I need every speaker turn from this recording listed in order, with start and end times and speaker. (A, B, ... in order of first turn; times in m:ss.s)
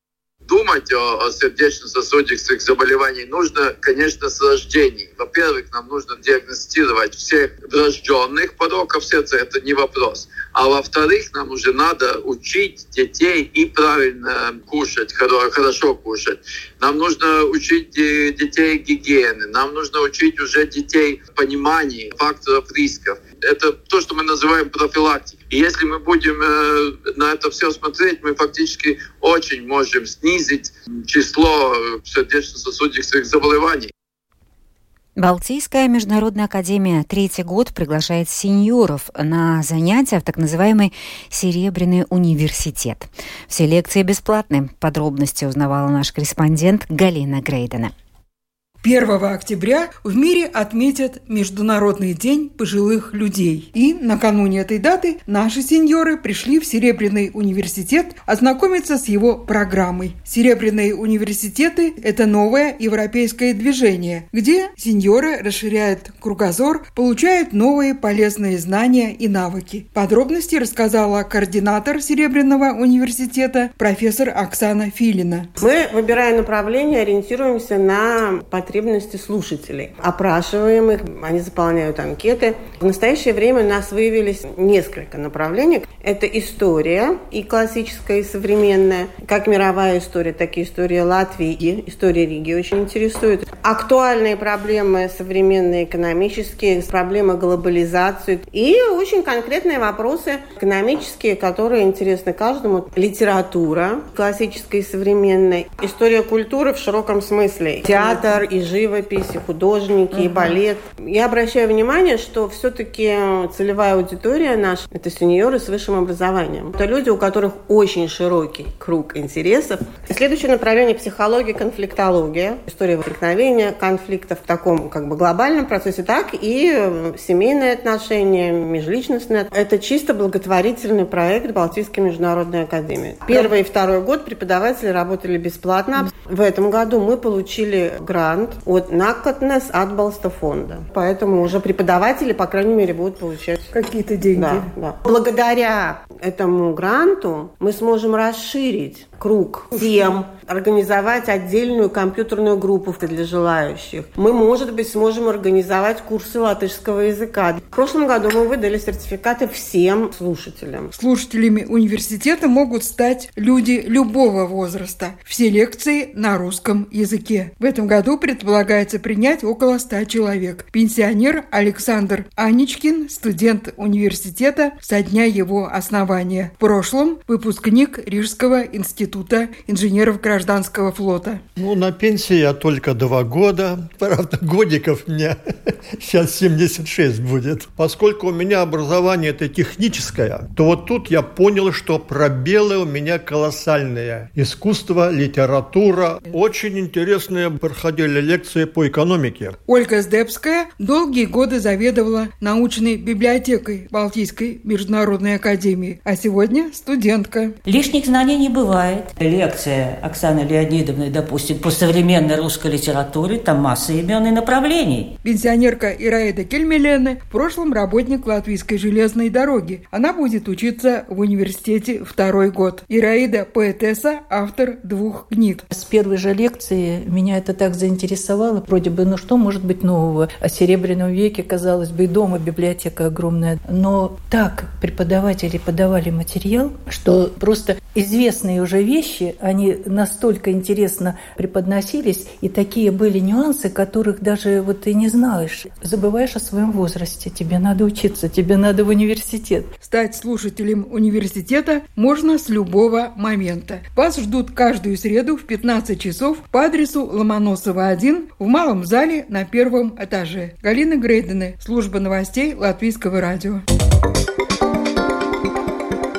0:00.5-0:33.9 A
0:35.2-0:47.9 B
0:48.8-1:15.5 C
1:15.6-2:23.7 D
2:23.7-2:24.7 C
2:24.3-2:40.9 D
2:41.0-3:01.4 C
3:01.6-3:05.4 E
3:06.0-3:19.6 E
3:19.7-3:27.6 C
3:27.7-3:35.0 F
3:35.2-3:45.6 C
3:45.7-4:09.7 G
4:09.8-4:23.6 C